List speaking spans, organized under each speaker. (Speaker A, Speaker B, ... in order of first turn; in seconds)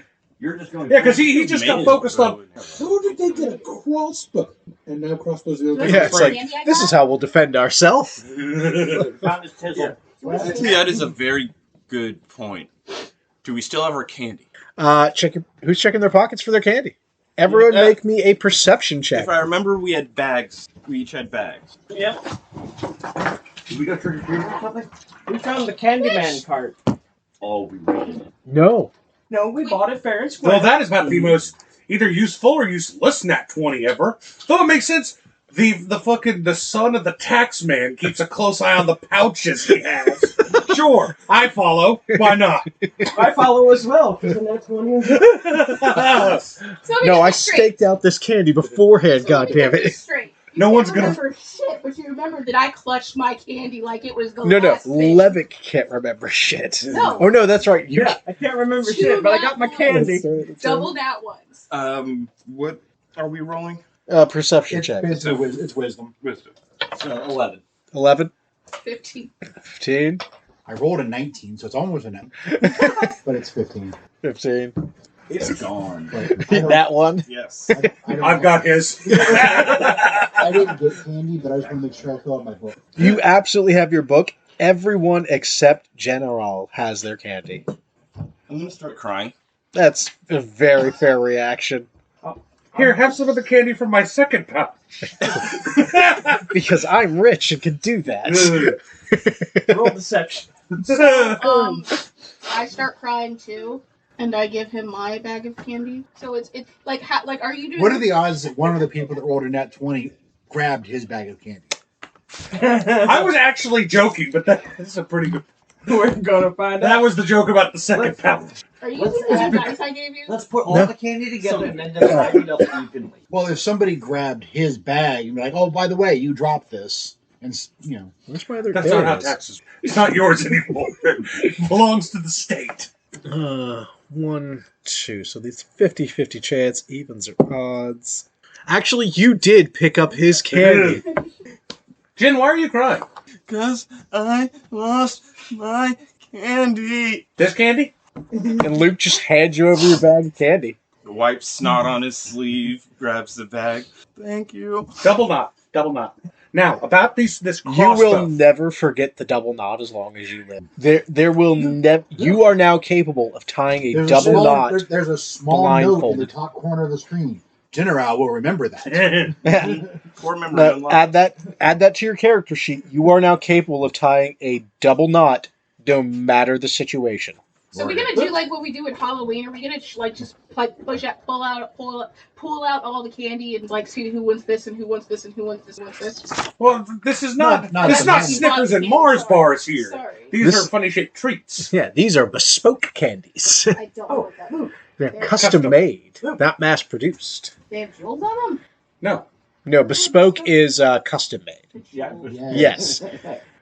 Speaker A: 0.4-2.1, 9.2-10.9, 23.7-24.9, 27.4-28.2, 66.9-67.6, 75.3-75.7, 118.9-123.2
Speaker B: 0.9-6.4, 8.3-9.1, 30.4-42.7, 45.1-46.6, 50.5-51.2, 78.2-80.7, 92.8-96.4, 98.2-98.8, 100.8-101.8, 112.8-115.5, 116.8-118.5, 128.7-132.9, 140.5-141.0, 142.2-143.1, 147.4-147.9, 155.0-158.3, 168.9-169.4, 186.6-191.7, 195.3-195.8, 199.0-199.3
Speaker C: 1.3-2.8, 9.8-12.7, 13.4-14.5, 17.5-18.0, 19.1-21.7, 27.4-28.2, 61.7-63.8, 66.2-66.5, 75.5-76.1, 77.3-77.7, 88.5-89.3, 143.5-147.3, 151.0-154.9, 169.5-171.1
Speaker D: 5.7-7.2, 10.2-10.8, 25.9-26.4, 29.6-29.9, 46.8-47.8, 49.1-55.4, 56.9-57.3, 58.8-61.7, 68.8-69.3, 100.9-108.3, 118.8-120.5, 177.7-186.3, 187.7-190.4, 193.7-195.4, 197.7-198.6, 199.7-200.6, 201.7-202.4
Speaker E: 5.8-8.2, 14.8-19.5, 28.5-28.9, 42.1-43.1, 47.0-50.0, 54.4-58.2, 59.8-61.0, 64.1-65.3, 67.9-68.3, 69.6-70.2, 72.5-73.1, 74.2-74.9, 76.3-77.9, 79.1-79.6, 83.0-87.7, 89.7-91.9, 96.4-99.9, 122.0-122.5, 128.3-129.4, 133.3-141.1, 148.6-150.8, 157.6-164.9, 165.5-166.3, 169.4-169.9, 170.5-177.4, 190.4-190.7, 191.7-193.8, 195.0-197.5, 199.7-201.6, 202.5-203.0
Speaker F: 21.9-22.2, 25.3-26.8, 29.3-31.3, 43.1-45.5, 57.9-60.3, 92.2-93.1, 99.7-100.5, 112.6-113.2, 115.9-117.1, 121.4-122.1, 194.1-194.8, 202.5-203.4
Speaker G: 64.7-66.1, 70.7-72.3, 73.2-74.0, 76.1-77.0, 77.7-79.8, 80.4-82.9, 107.8-111.8, 123.3-128.1, 163.9-169.4, 177.7-178.2, 187.4-188.6, 202.2-202.8